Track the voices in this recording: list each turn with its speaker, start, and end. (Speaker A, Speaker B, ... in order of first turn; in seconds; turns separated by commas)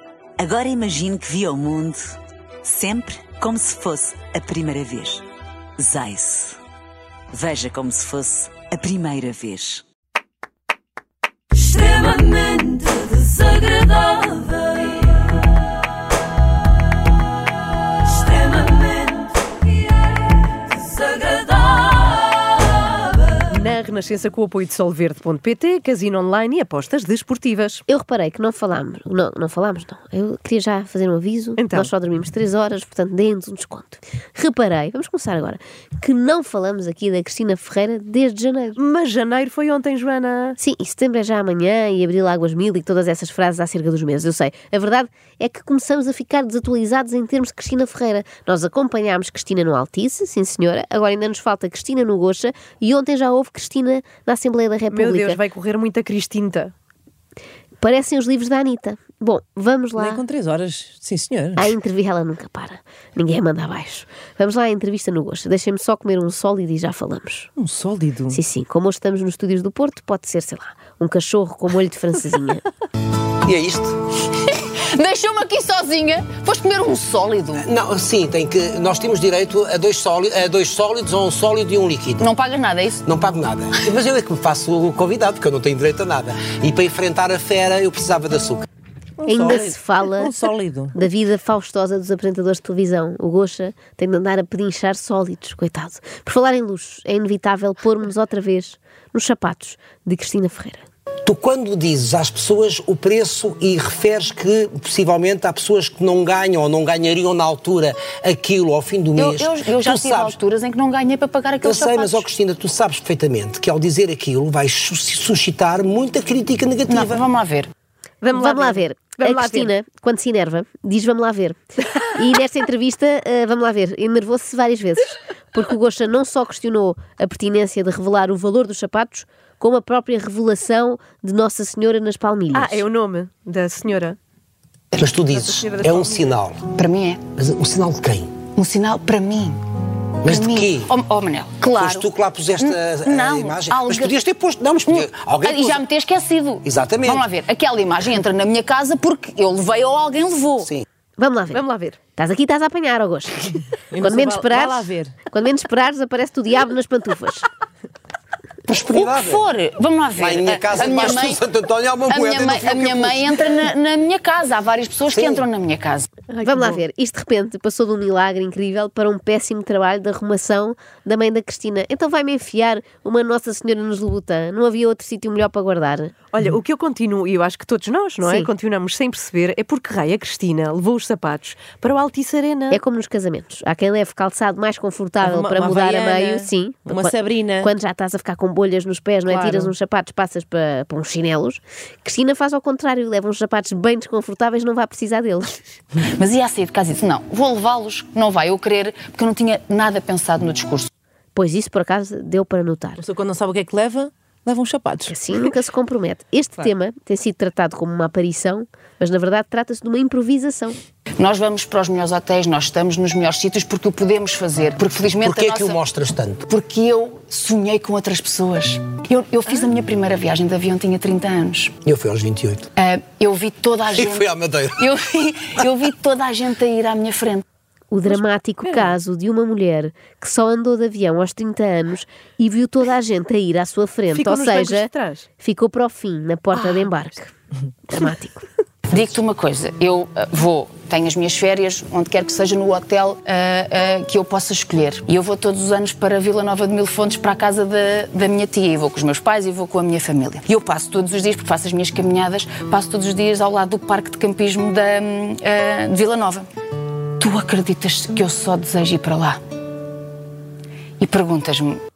Speaker A: 0.4-5.2, Speaker A: 5.8-6.6, Speaker A: 7.3-9.8, Speaker A: 11.6-14.4, Speaker B: 23.4-27.8, Speaker C: 27.9-38.8, Speaker B: 31.6-31.9, Speaker B: 38.8-40.6, Speaker C: 40.6-55.4, Speaker B: 54.9-56.7, Speaker C: 57.8-60.2, Speaker D: 60.0-61.7, Speaker C: 61.5-67.5, Speaker D: 67.6-68.4, Speaker C: 68.3-72.6, Speaker E: 73.4-74.2, Speaker F: 74.5-77.6, Speaker E: 77.6-82.3, Speaker F: 82.2-83.0, Speaker E: 83.0-88.7, Speaker D: 89.2-90.9, Speaker C: 89.2-90.3, Speaker C: 90.9-100.8, Speaker E: 101.2-110.3, Speaker F: 109.2-112.2, Speaker E: 111.6-117.2, Speaker F: 116.9-117.7, Speaker B: 118.2-119.7, Speaker C: 118.3-132.8, Speaker B: 132.5-134.2, Speaker E: 134.9-136.7, Speaker B: 135.2-136.3, Speaker F: 136.7-137.2, Speaker E: 137.3-138.3, Speaker F: 138.5-139.6, Speaker E: 140.2-140.9, Speaker F: 140.2-142.1, Speaker E: 141.8-145.8, Speaker F: 142.6-144.1, Speaker F: 144.9-150.7, Speaker E: 146.6-147.2, Speaker C: 151.2-151.6, Speaker B: 151.5-152.0, Speaker C: 152.2-157.5, Speaker D: 153.9-155.1, Speaker E: 158.7-159.4, Speaker F: 158.9-161.4, Speaker E: 160.2-163.3, Speaker F: 162.1-166.1, Speaker E: 165.1-165.4, Speaker B: 166.3-166.8, Speaker C: 166.4-176.1, Speaker B: 176.3-182.8, Speaker C: 178.2-178.5, Speaker C: 182.7-195.8, Speaker D: 185.2-187.7, Speaker B: 189.3-189.7, Speaker F: 196.0-200.9, Speaker C: 201.3-203.0, Speaker D: 203.0-205.1, Speaker C: 205.1-210.8, Speaker F: 211.2-215.8, Speaker E: 215.2-216.4, Speaker F: 216.5-221.8, Speaker E: 221.8-222.7, Speaker F: 222.8-227.4, Speaker E: 223.9-224.9, Speaker C: 227.9-237.3, Speaker B: 228.6-228.9, Speaker B: 234.1-235.2, Speaker B: 236.6-236.9, Speaker C: 237.9-238.5, Speaker F: 238.9-256.5, Speaker F: 257.2-259.4, Speaker F: 261.0-261.8